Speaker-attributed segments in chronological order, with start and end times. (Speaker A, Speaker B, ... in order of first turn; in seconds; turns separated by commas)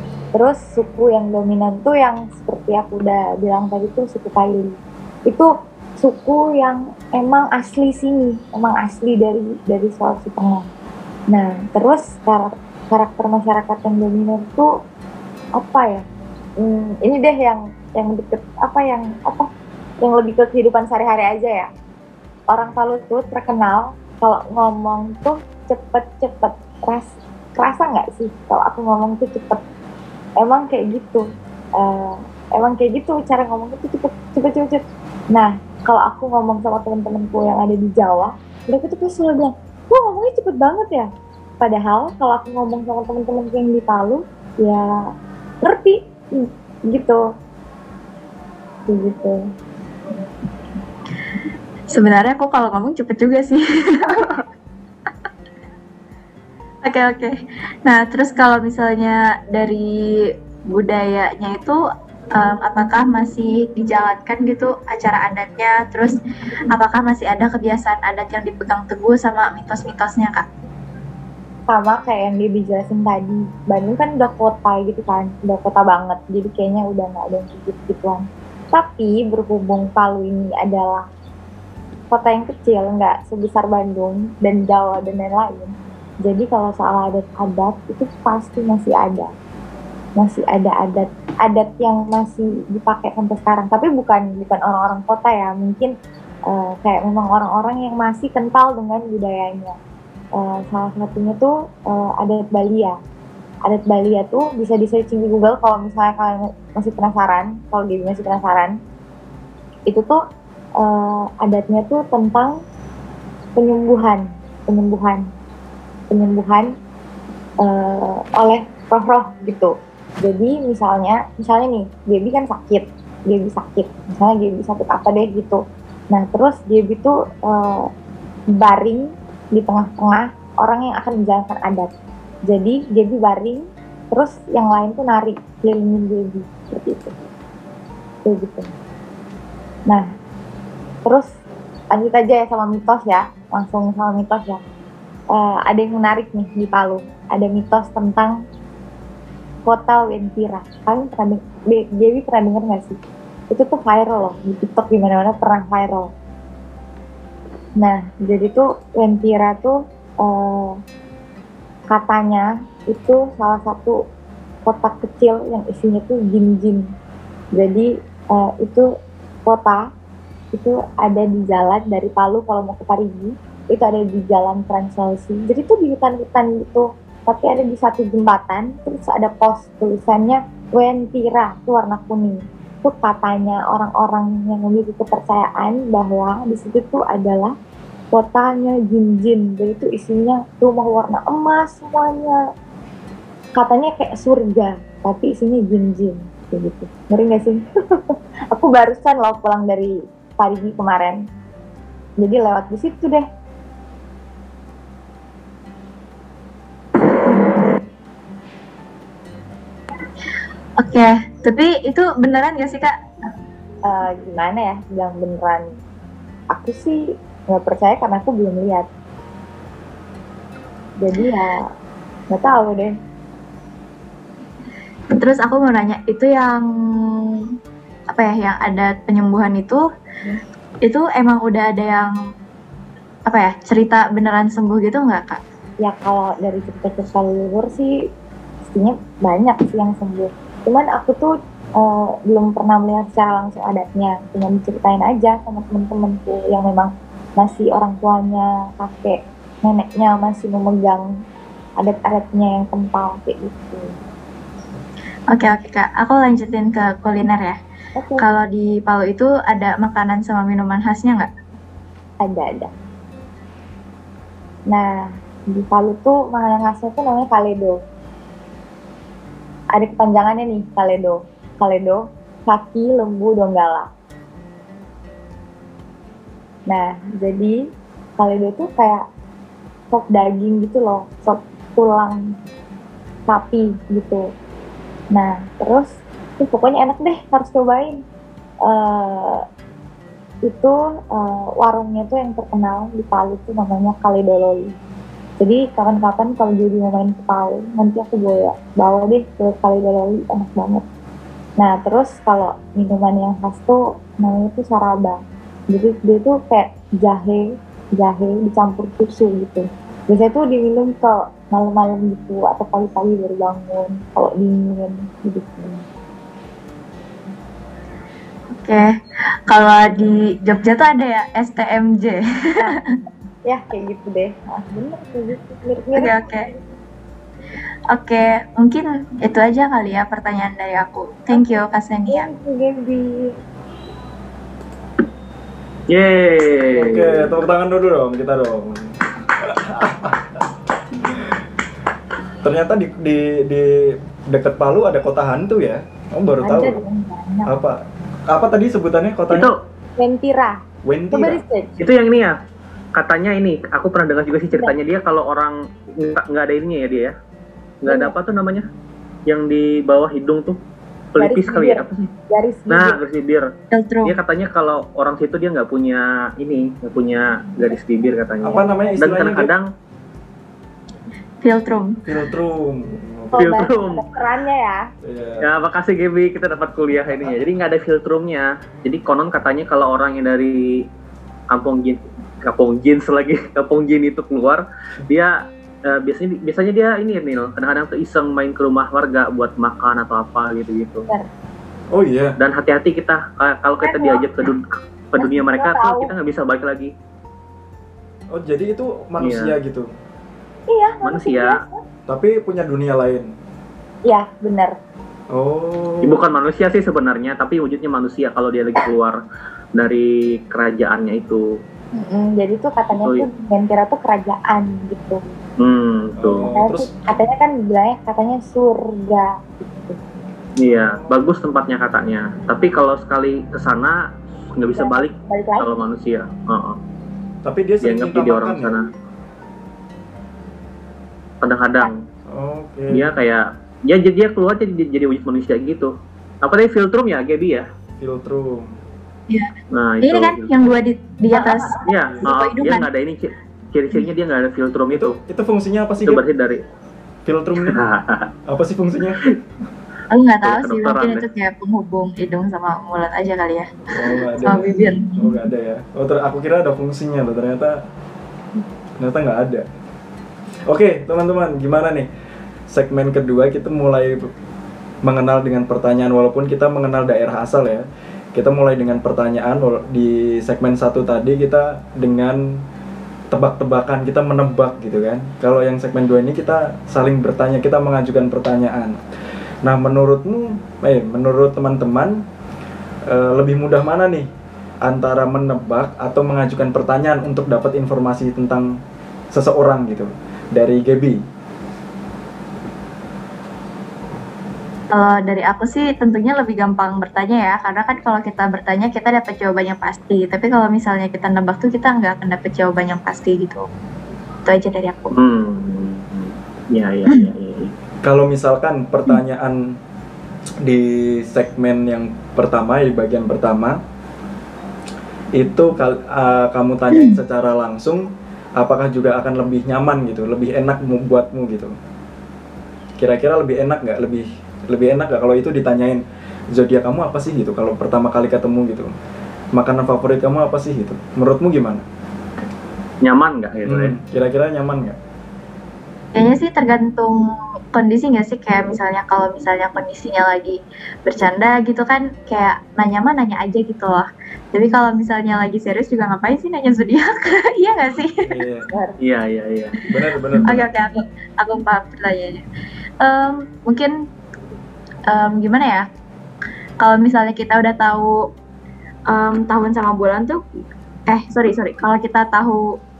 Speaker A: 0.3-4.8, Speaker A: 6.0-10.7, Speaker A: 11.3-14.7, Speaker A: 15.6-16.0, Speaker A: 16.6-19.5, Speaker A: 20.0-21.7, Speaker A: 22.5-29.6, Speaker A: 30.4-31.2, Speaker A: 31.8-34.8, Speaker A: 35.3-41.1, Speaker A: 41.6-44.9, Speaker A: 45.6-47.2, Speaker A: 48.9-49.4, Speaker B: 51.9-54.4, Speaker B: 56.9-59.9, Speaker B: 60.7-61.8, Speaker B: 62.4-66.2, Speaker B: 66.7-70.5, Speaker A: 71.7-81.1, Speaker A: 82.1-89.3, Speaker A: 90.2-95.9, Speaker A: 96.5-99.8, Speaker A: 100.4-103.0, Speaker A: 103.7-108.8, Speaker A: 109.9-110.2, Speaker A: 110.8-112.6, Speaker A: 113.6-115.2, Speaker A: 116.1-116.7, Speaker A: 117.6-125.6, Speaker A: 126.1-127.9, Speaker A: 128.5-131.9, Speaker A: 132.5-137.2, Speaker A: 138.2-138.7, Speaker A: 141.9-144.6, Speaker A: 145.3-148.4, Speaker A: 149.7-153.0, Speaker A: 153.5-156.1, Speaker A: 157.8-160.8, Speaker A: 161.9-164.0, Speaker A: 164.7-166.9, Speaker A: 167.6-168.9, Speaker A: 169.5-169.8, Speaker A: 170.5-187.5, Speaker A: 188.1-192.4, Speaker A: 193.6-201.2, Speaker A: 202.2-203.2, Speaker B: 207.3-207.6, Speaker B: 210.8-213.0, Speaker A: 213.9-215.7, Speaker A: 216.5-218.9, Speaker A: 221.0-221.6, Speaker A: 222.3-222.9, Speaker B: 225.1-226.7, Speaker B: 228.1-229.8, Speaker B: 230.8-232.1, Speaker B: 233.3-235.4, Speaker A: 235.8-237.9, Speaker A: 238.7-251.1, Speaker A: 251.8-253.9, Speaker B: 255.3-257.6, Speaker A: 258.0-258.2, Speaker B: 258.2-261.3, Speaker A: 262.2-262.7, Speaker A: 264.7-267.8, Speaker A: 269.7-273.9, Speaker A: 276.7-277.6, Speaker A: 278.2-279.1, Speaker A: 279.9-282.2, Speaker A: 283.3-284.2, Speaker A: 285.1-285.9, Speaker A: 286.4-288.0, Speaker A: 288.7-289.4, Speaker A: 290.5-294.7, Speaker A: 295.4-300.8, Speaker A: 301.6-305.2, Speaker A: 305.7-307.4, Speaker A: 308.0-315.8, Speaker B: 318.6-318.9, Speaker B: 319.5-322.7, Speaker A: 323.5-326.5, Speaker B: 326.0-326.5, Speaker B: 327.9-332.3, Speaker A: 332.1-333.3, Speaker C: 335.9-337.2, Speaker D: 336.8-341.4, Speaker D: 342.4-346.8, Speaker A: 346.4-347.5, Speaker D: 347.5-349.5, Speaker A: 350.0-350.6, Speaker D: 350.9-351.4, Speaker A: 351.1-351.7, Speaker C: 351.8-352.4, Speaker C: 352.9-357.1, Speaker C: 357.8-358.7, Speaker A: 357.9-358.1, Speaker C: 359.3-360.6, Speaker C: 361.1-361.9, Speaker A: 361.2-363.0, Speaker C: 362.7-363.5, Speaker B: 363.7-364.2, Speaker C: 364.0-369.7, Speaker D: 368.4-369.5, Speaker B: 371.4-372.0, Speaker D: 372.1-373.6, Speaker A: 373.3-374.8, Speaker C: 373.4-374.1, Speaker D: 375.0-375.5, Speaker C: 375.4-380.7, Speaker C: 381.5-391.1, Speaker D: 391.9-392.4, Speaker C: 392.4-396.9, Speaker A: 393.8-394.3, Speaker A: 395.2-396.1, Speaker D: 398.3-399.9, Speaker C: 399.2-399.5, Speaker A: 400.7-401.8, Speaker C: 401.0-401.6, Speaker D: 402.1-403.3, Speaker A: 404.1-404.7, Speaker D: 405.3-406.2, Speaker C: 406.0-409.2, Speaker C: 409.8-411.4, Speaker A: 411.9-415.2, Speaker C: 413.0-413.2, Speaker C: 415.6-416.5, Speaker D: 416.2-417.0, Speaker A: 416.5-419.3, Speaker C: 420.6-424.0, Speaker D: 420.7-421.1, Speaker C: 424.6-426.8, Speaker A: 424.8-425.7, Speaker D: 427.4-428.8, Speaker C: 427.8-428.9, Speaker C: 431.4-432.0, Speaker D: 432.3-433.1, Speaker C: 432.9-437.7, Speaker D: 438.0-438.8, Speaker B: 439.3-442.9, Speaker C: 439.7-440.8, Speaker A: 441.3-442.0, Speaker C: 441.9-445.2, Speaker D: 445.0-446.2, Speaker C: 446.1-446.6, Speaker D: 447.3-447.8, Speaker C: 447.6-448.3, Speaker D: 448.5-449.3, Speaker B: 450.1-453.8, Speaker C: 450.4-451.3, Speaker D: 453.9-457.8, Speaker B: 454.4-455.4, Speaker D: 459.0-459.7, Speaker D: 460.7-462.1, Speaker D: 462.7-464.2, Speaker D: 465.1-467.8, Speaker D: 468.4-472.6, Speaker D: 473.3-478.9, Speaker D: 479.6-482.2, Speaker D: 483.1-484.3, Speaker D: 484.9-488.7, Speaker D: 489.3-491.2, Speaker B: 494.9-503.7, Speaker B: 504.4-505.1, Speaker C: 505.1-507.7, Speaker D: 508.0-509.6, Speaker D: 510.6-513.8, Speaker D: 515.4-518.0, Speaker D: 518.6-521.8, Speaker D: 523.0-526.0, Speaker D: 526.5-528.9, Speaker D: 529.5-531.9, Speaker C: 533.0-533.9, Speaker D: 533.7-535.0, Speaker B: 536.2-537.2, Speaker B: 537.7-548.2, Speaker D: 548.2-548.7, Speaker C: 549.0-549.8, Speaker D: 549.9-550.7, Speaker B: 550.4-552.4, Speaker B: 553.0-553.9, Speaker B: 555.1-555.9, Speaker B: 556.8-558.2, Speaker B: 559.1-560.4, Speaker B: 561.1-562.8